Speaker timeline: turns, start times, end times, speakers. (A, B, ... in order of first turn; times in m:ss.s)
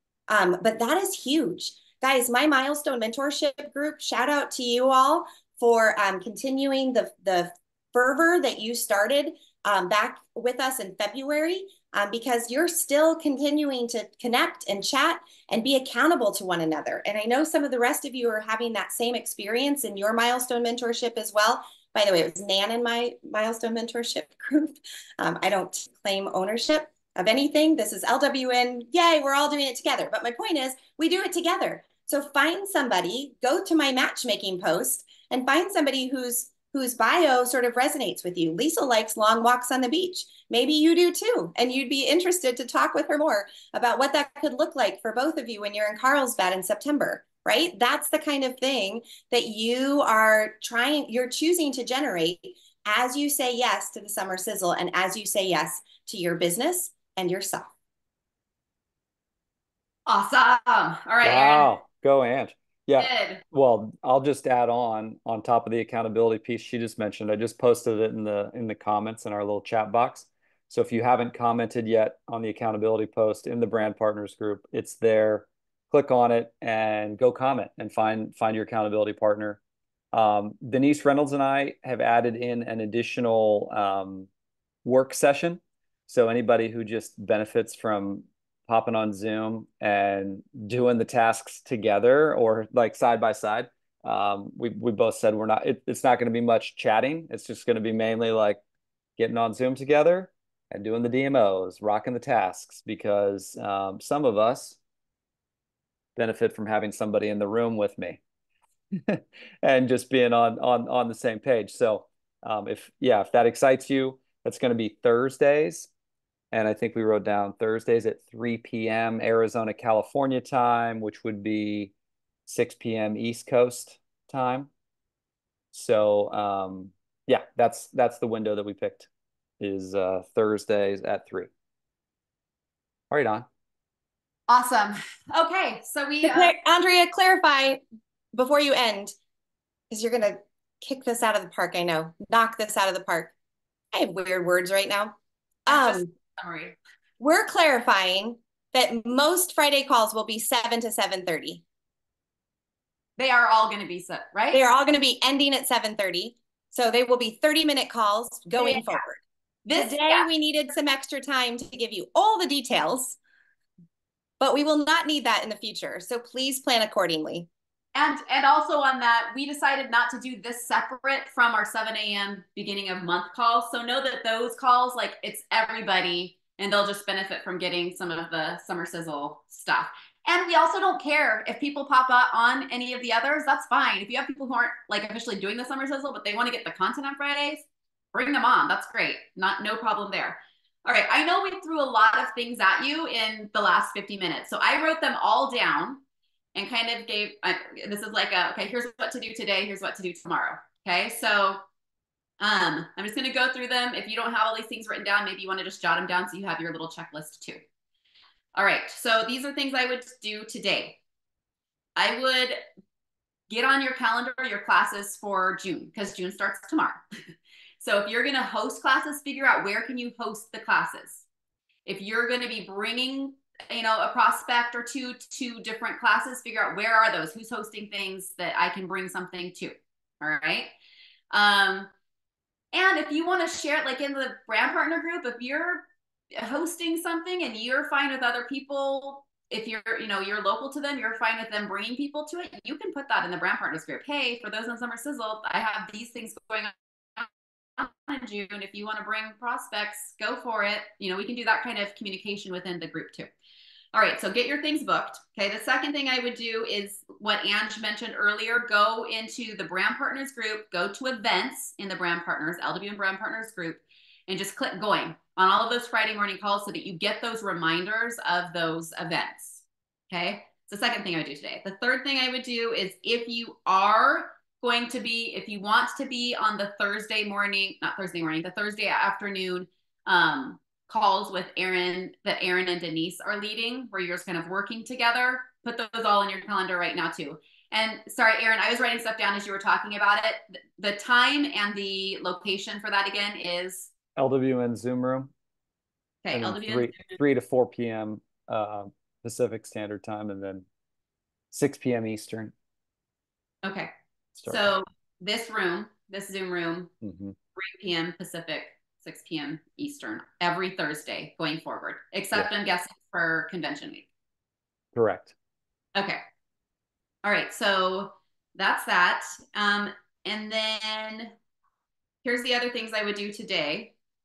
0:00.3-0:57.7 A
1:00.1-1:01.7 B
1:01.2-1:19.6 C
1:03.0-1:03.4 B
1:20.1-1:24.3 C
1:24.8-1:38.6 C
1:39.2-1:44.8 C
1:46.2-1:48.2 C
1:49.1-1:55.9 C
1:56.5-2:01.9 C
2:02.5-2:04.7 C
2:05.7-2:09.1 C
2:09.6-2:11.5 C
2:13.1-2:13.5 C
2:14.5-2:16.6 B
2:16.2-2:17.8 A
2:18.3-2:19.1 A
2:19.9-2:23.3 A
2:23.9-2:26.1 A
2:25.7-2:26.8 B
2:27.2-2:31.6 A
2:33.2-2:34.6 B
2:34.5-2:39.2 A
2:38.6-2:39.0 B
2:39.7-2:40.3 B
2:39.7-2:43.2 A
2:44.4-2:47.5 A
2:48.0-3:16.0 B
3:16.6-3:21.6 B
3:22.4-3:27.6 B
3:28.6-3:31.0 B
3:32.0-3:32.6 B
3:33.5-3:37.0 B
3:37.8-3:41.2 B
3:41.9-3:50.7 B
3:51.3-3:51.9 B
3:52.7-4:13.3 B
4:13.9-4:53.9 B
4:54.2-4:55.3 C
4:56.2-4:57.1 B
4:56.3-5:00.6 C
5:01.5-5:02.5 C
5:03.6-5:03.9 B
5:04.4-5:04.7 C
5:04.5-5:06.9 B
5:07.0-5:07.4 C
5:07.6-5:14.1 B
5:15.0-5:15.3 C
5:17.2-5:21.3 B
5:22.2-5:23.9 B